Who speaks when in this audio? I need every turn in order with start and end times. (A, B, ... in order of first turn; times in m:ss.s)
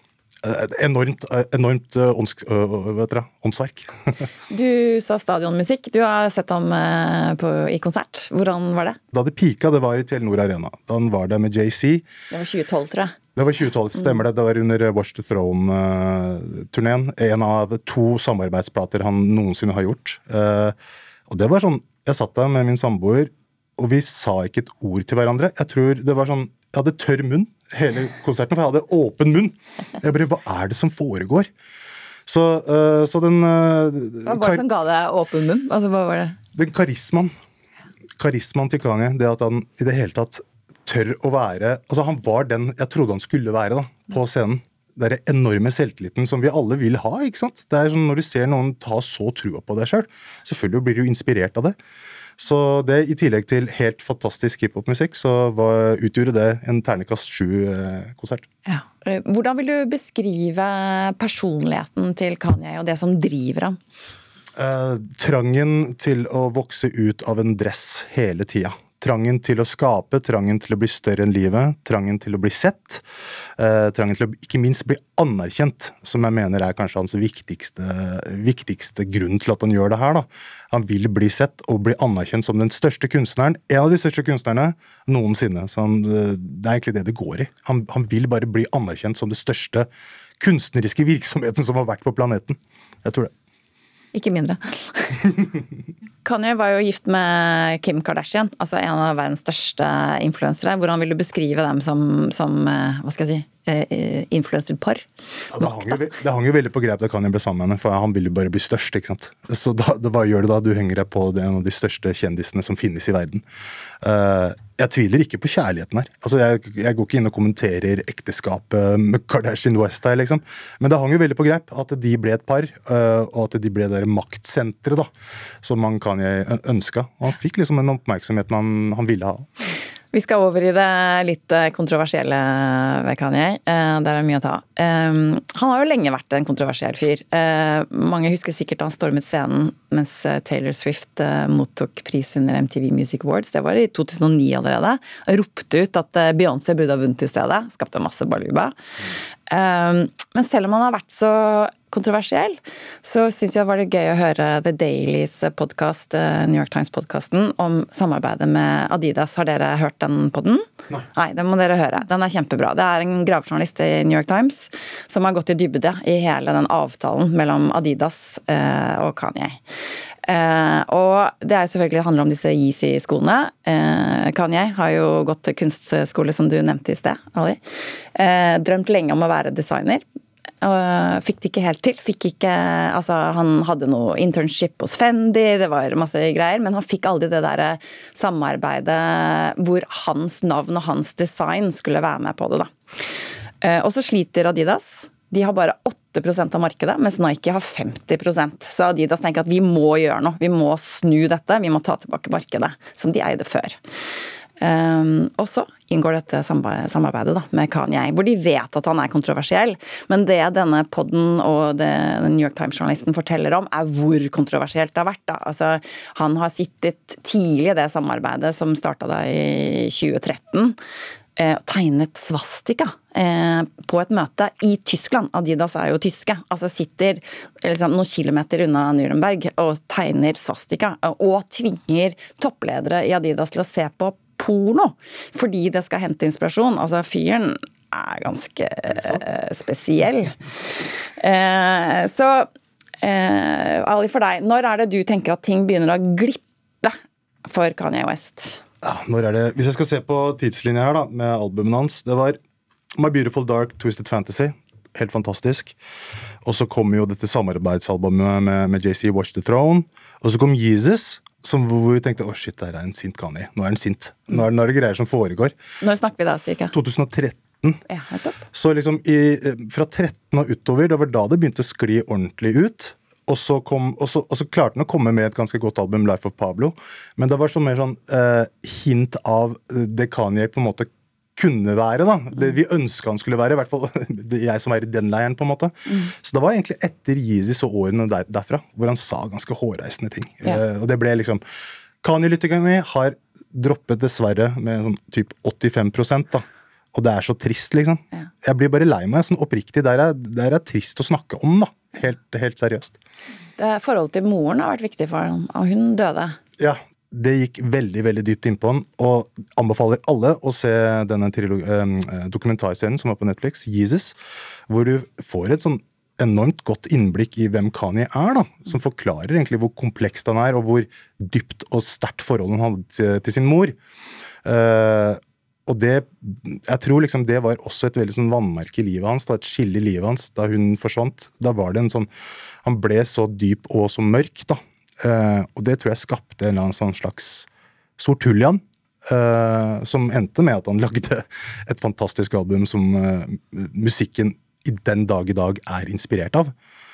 0:00.4-0:04.2 A
0:04.5-0:09.0 B
0:09.1-0:12.0 A
0:12.3-0:13.2 B
0:13.4-0:20.8 A
0:21.3-0:31.5 A
0:32.2-0:34.6 A
0:34.2-0:36.4 B
0:36.5-0:37.3 A
0:38.2-0:51.8 A
0:52.4-0:58.5 A
0:58.6-1:03.8 B
1:04.6-1:13.0 A
1:13.6-1:29.9 A
1:30.4-1:33.3 A
1:34.1-1:35.2 B
1:36.2-1:45.0 B
1:45.5-1:53.4 A
1:45.6-1:45.9 B
1:54.0-2:05.1 A
2:05.6-2:09.5 A
2:10.1-2:28.7 B
2:29.5-2:49.6 B
2:50.2-2:57.6 B
2:58.1-3:00.0 B
3:00.6-3:12.7 B
3:13.6-3:23.8 B
3:24.6-3:40.8 B
3:41.4-4:00.3 B
3:58.9-3:59.2 A
4:01.2-4:02.5 B
4:03.0-4:08.6 B
4:08.8-4:12.4 A
4:12.9-4:15.7 A
4:16.4-4:25.5 A
4:25.8-4:26.7 B
4:26.7-4:27.8 A
4:27.9-4:28.4 B
4:28.5-4:51.4 A
4:52.0-5:02.9 A
5:03.6-5:06.4 B
5:06.6-5:14.2 A
5:14.7-5:23.8 A
5:24.4-5:32.1 A
5:32.6-5:46.5 A